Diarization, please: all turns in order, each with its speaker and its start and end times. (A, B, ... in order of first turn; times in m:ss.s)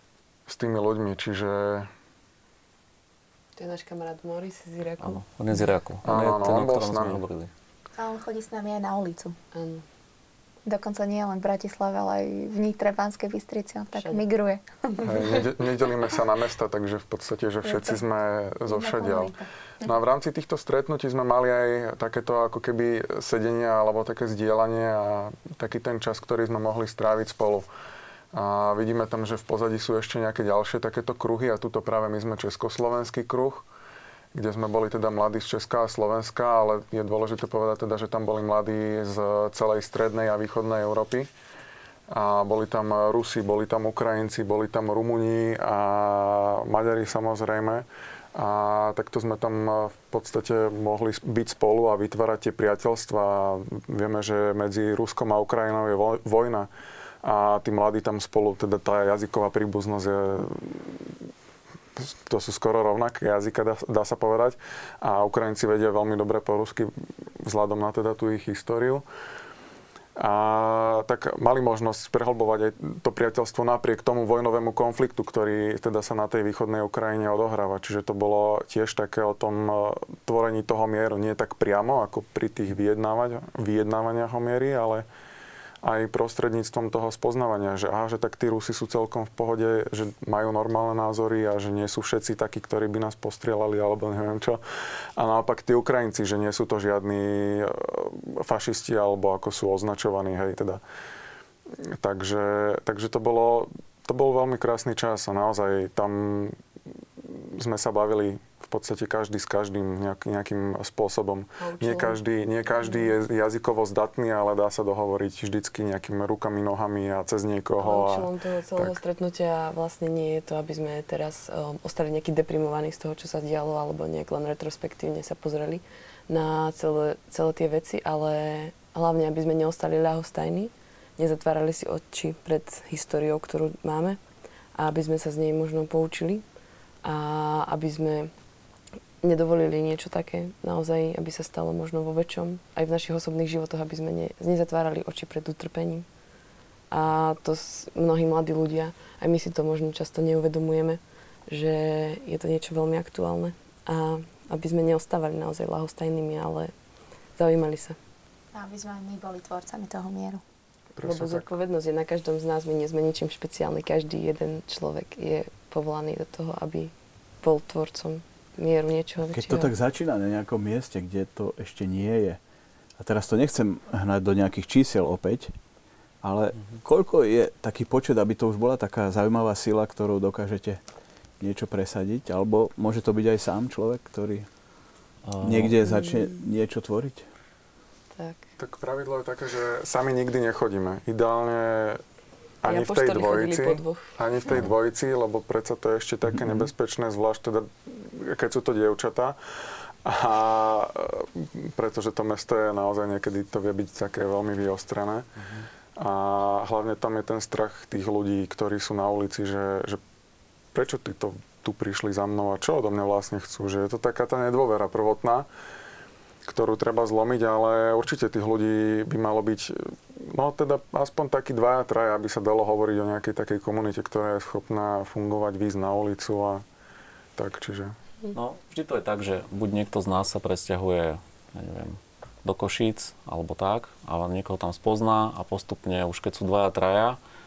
0:00.5-0:01.9 A
0:03.6-0:05.2 B
0:05.0-0:07.5 C
0:06.0-0:07.2 A
0:08.0-0:09.4 D
0:09.5-0:09.8 B
0:10.6-0:15.5 D
0:14.0-0:14.2 B
0:15.0-0:27.7 A
0:17.6-0:18.0 D
0:18.7-0:19.9 D
0:28.3-0:33.6 A
0:34.3-0:41.3 A
0:42.1-0:56.7 A
0:57.2-1:01.0 A
1:02.0-1:09.0 A
1:10.2-1:25.0 A
1:25.8-1:34.6 A
1:35.2-1:40.8 A
1:42.0-1:46.6 A
1:47.2-1:59.0 A
1:51.6-1:52.2 B
1:52.8-1:53.1 B
1:57.8-2:14.2 B
2:14.8-2:16.4 B
2:17.0-2:18.3 B
2:19.2-2:26.0 B
2:26.9-2:36.7 B
2:37.4-2:38.0 B
2:38.5-2:40.4 D
2:40.9-2:41.4 A
2:41.0-2:49.7 B
2:49.3-2:52.4 E
2:53.0-2:55.5 E
2:56.2-3:00.8 E
3:01.4-3:04.5 E
3:05.2-3:05.7 C
3:05.4-3:07.2 E
3:05.9-3:06.3 B
3:08.2-3:08.4 B
3:08.6-3:12.0 A
3:12.6-3:19.4 A
3:12.7-3:14.1 B
3:20.0-3:25.2 A
3:25.4-3:25.7 C
3:26.0-3:30.0 A
3:30.7-3:35.5 A
3:36.4-3:46.6 A
3:47.4-3:48.0 A
3:48.3-3:57.2 C